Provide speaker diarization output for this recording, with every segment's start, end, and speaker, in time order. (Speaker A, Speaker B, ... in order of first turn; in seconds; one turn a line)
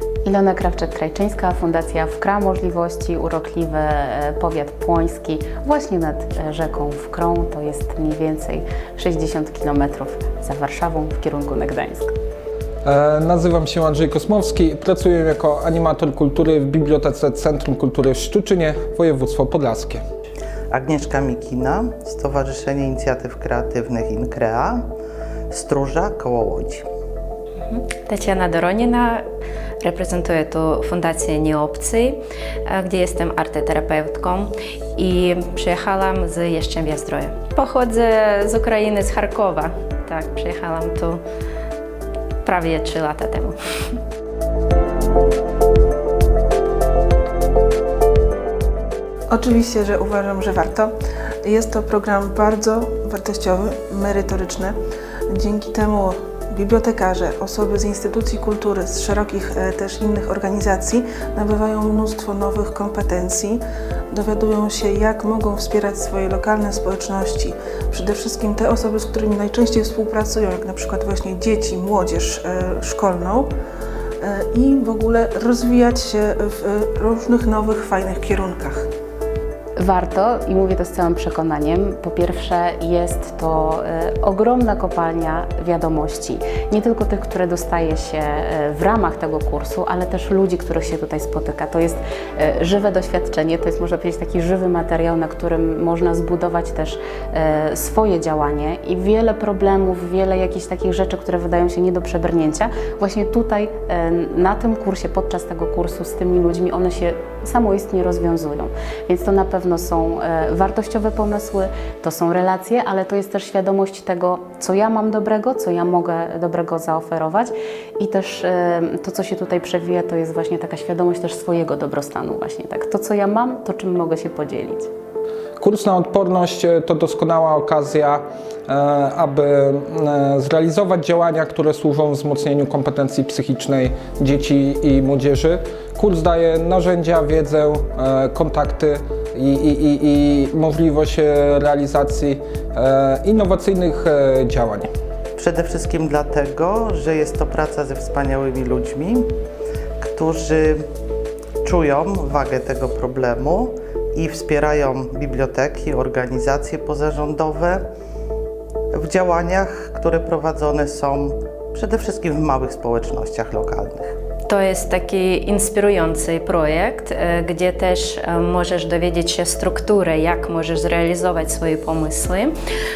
Speaker A: 0.2-12.1
Speaker B: 12.8-20.0
Speaker C: 20.7-24.8
Speaker C: 25.5-26.9
Speaker D: 27.7-29.2
Speaker D: 29.8-41.2
Speaker D: 42.4-43.6
Speaker E: 49.3-50.9
Speaker E: 51.4-54.8
Speaker E: 55.3-73.5
Speaker E: 74.2-78.9
Speaker A: 79.8-124.9
Speaker B: 125.6-144.9
Speaker C: 145.4-149.3
Speaker C: 150.0-150.9
Speaker C: 151.6-157.9
Speaker C: 158.9-164.2
Speaker D: 164.5-172.5